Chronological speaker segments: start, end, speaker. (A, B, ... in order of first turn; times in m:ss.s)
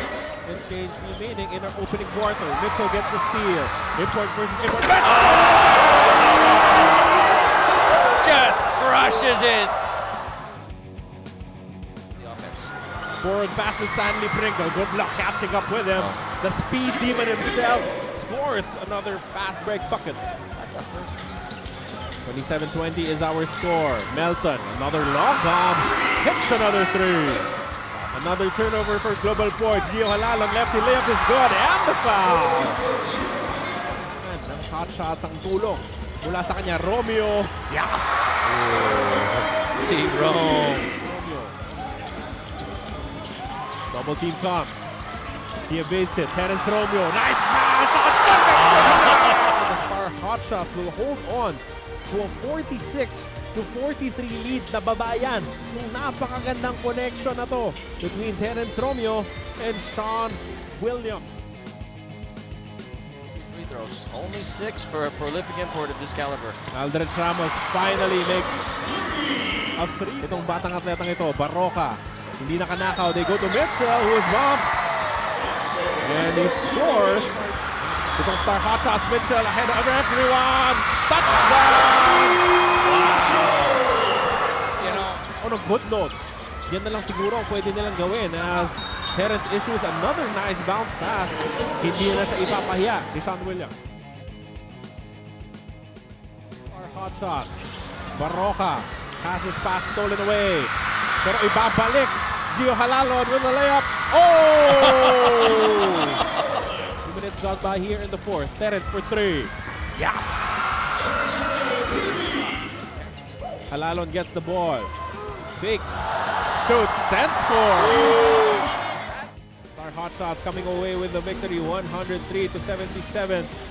0:00.4-0:05.3 A
0:05.2-0:05.5 B
0:08.2-0:09.8 B
0:12.2-0:12.7 B
0:13.2-0:20.2 A
0:20.6-0:21.2 B
0:22.2-0:27.5 A
0:28.1-0:32.8 A
0:34.1-0:38.4 A
0:38.4-0:40.9 B
0:41.0-0:41.6 A
0:43.9-0:45.0 A
0:45.7-1:01.5 A
1:03.3-1:06.6 B
1:06.7-1:08.6 A
1:09.8-1:14.7 A
1:16.0-1:22.4 A
1:22.9-1:23.8 B
1:24.8-1:33.8 A
1:36.7-1:46.2 A
1:47.0-1:50.6 A
1:53.7-1:54.9 A
1:55.5-1:58.6 A
1:59.7-2:03.5 A